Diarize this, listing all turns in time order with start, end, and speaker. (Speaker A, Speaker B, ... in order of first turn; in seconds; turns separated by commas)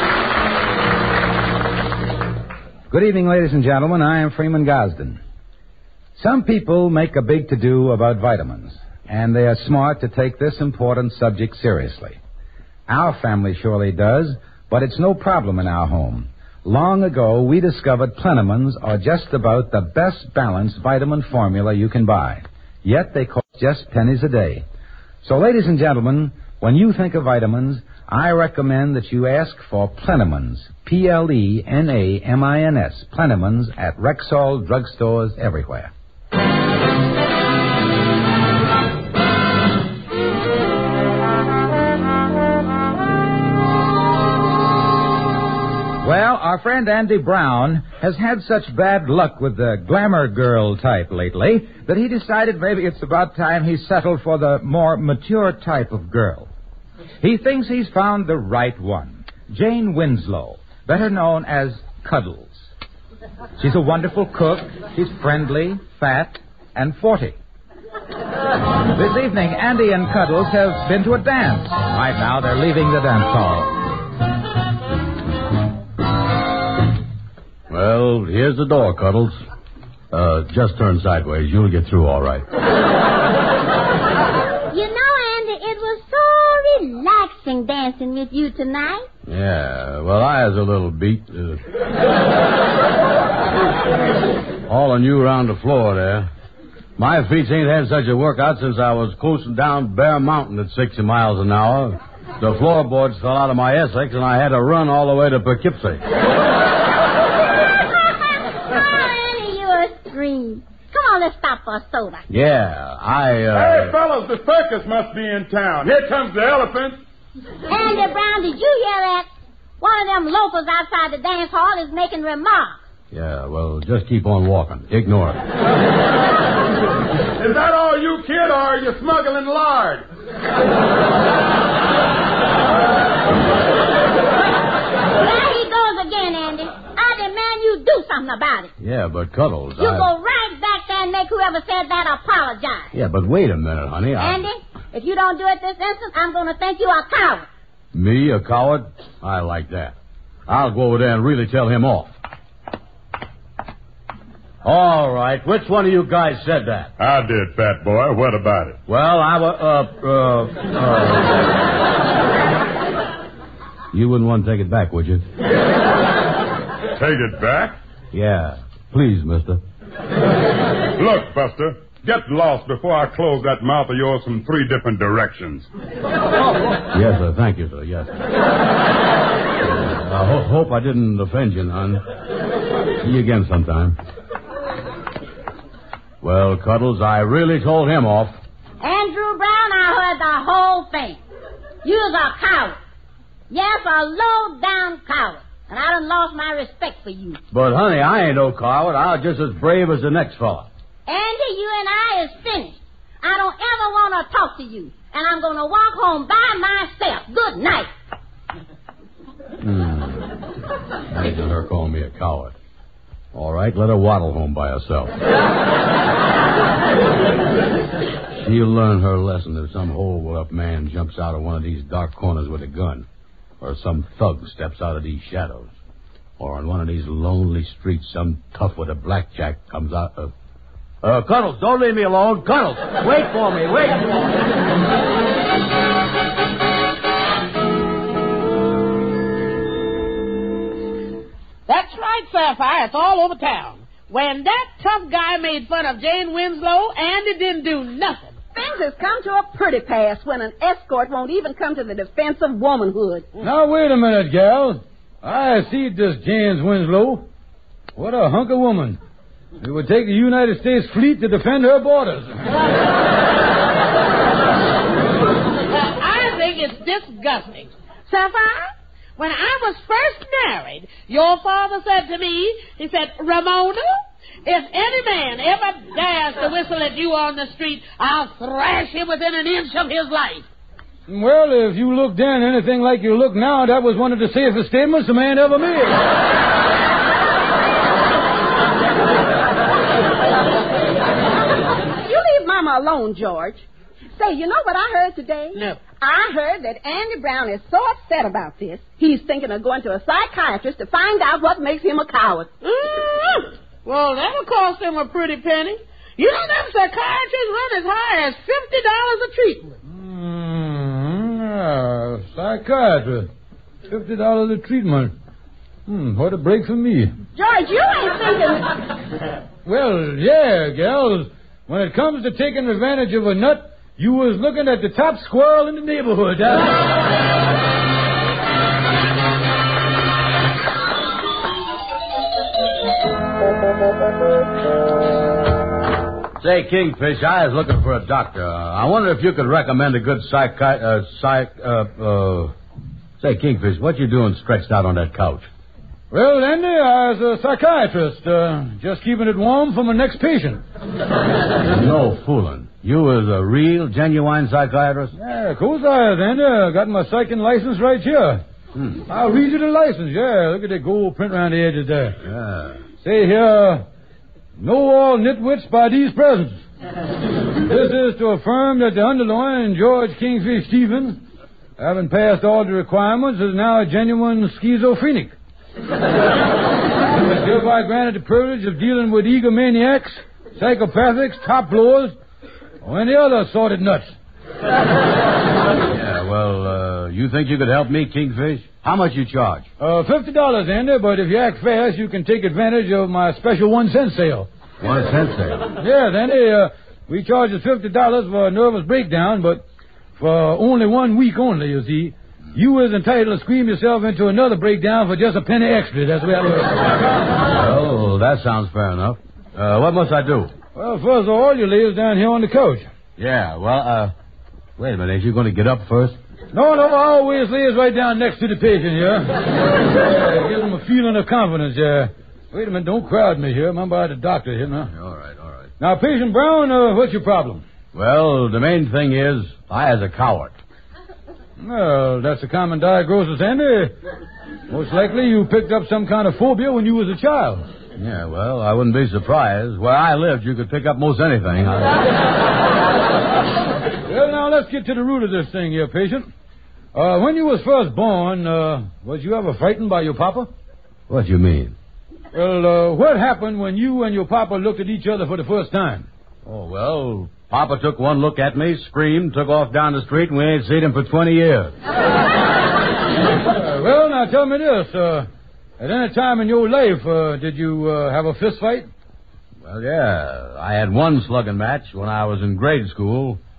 Speaker A: 2.9-5.2, Speaker A: 6.2-12.2, Speaker A: 12.9-24.6, Speaker A: 25.2-35.9, Speaker A: 46.0-56.5, Speaker A: 57.2-62.7, Speaker A: 63.6-67.4, Speaker A: 68.9-73.8, Speaker B: 77.7-79.4, Speaker B: 80.1-82.4, Speaker C: 84.7-89.0, Speaker B: 89.3-91.6, Speaker B: 94.7-96.3, Speaker B: 97.0-106.0, Speaker C: 107.8-112.2, Speaker B: 112.3-114.0, Speaker D: 113.5-117.0, Speaker C: 117.7-119.3, Speaker C: 119.8-122.8, Speaker B: 123.1-125.4, Speaker D: 127.4-130.0, Speaker C: 135.2-138.7, Speaker B: 138.8-140.1, Speaker C: 139.8-142.9, Speaker B: 142.9-144.4, Speaker C: 144.2-147.5, Speaker B: 147.9-149.9, Speaker B: 150.5-152.1, Speaker B: 154.6-156.9, Speaker D: 157.0-158.8, Speaker B: 158.9-161.5, Speaker B: 163.9-165.2, Speaker D: 166.9-167.8, Speaker B: 168.1-169.6, Speaker D: 170.9-175.7, Speaker B: 176.9-178.1, Speaker B: 179.7-182.0, Speaker B: 183.0-184.0, Speaker B: 186.2-188.4, Speaker C: 188.8-191.2, Speaker C: 191.8-192.8, Speaker C: 193.5-197.4, Speaker B: 197.5-200.7, Speaker C: 201.1-207.9, Speaker B: 209.6-210.4, Speaker B: 211.1-212.5, Speaker B: 213.3-215.2, Speaker B: 218.3-223.1, Speaker B: 223.6-225.7, Speaker B: 226.4-230.3, Speaker B: 231.0-234.2, Speaker E: 241.7-248.4, Speaker F: 248.5-253.3, Speaker G: 253.4-257.2, Speaker G: 257.9-259.0, Speaker G: 259.6-262.4, Speaker E: 265.8-273.8, Speaker E: 274.4-280.4, Speaker G: 281.1-286.0, Speaker F: 292.0-302.5, Speaker E: 295.5-295.8, Speaker E: 302.6-309.7, Speaker G: 309.9-313.3, Speaker G: 313.9-315.1, Speaker G: 315.9-317.1, Speaker F: 317.4-318.7, Speaker G: 319.6-326.7, Speaker B: 336.4-342.5, Speaker B: 343.2-345.5, Speaker G: 346.1-350.6, Speaker B: 351.6-355.1, Speaker G: 355.2-358.4, Speaker B: 358.7-359.0, Speaker G: 359.1-362.2, Speaker B: 362.2-362.8, Speaker G: 363.0-363.8, Speaker G: 364.6-366.6, Speaker G: 367.7-371.2, Speaker G: 371.8-375.3, Speaker G: 377.3-382.1, Speaker G: 382.8-384.1, Speaker B: 385.8-389.7, Speaker G: 389.8-394.5, Speaker B: 394.8-395.7, Speaker G: 395.8-399.6, Speaker G: 400.1-406.9, Speaker B: 407.4-410.5, Speaker G: 410.7-412.9, Speaker B: 413.2-414.1, Speaker B: 414.8-416.2, Speaker G: 416.5-424.9, Speaker B: 424.9-425.7, Speaker G: 425.8-427.6, Speaker B: 427.9-430.6, Speaker G: 431.6-433.9, Speaker G: 434.7-437.6, Speaker B: 437.9-442.0, Speaker G: 444.1-446.3, Speaker G: 446.9-450.5, Speaker B: 451.1-451.8, Speaker G: 452.3-456.1, Speaker B: 456.4-461.7, Speaker G: 463.5-465.3, Speaker G: 465.8-468.9, Speaker B: 469.6-473.4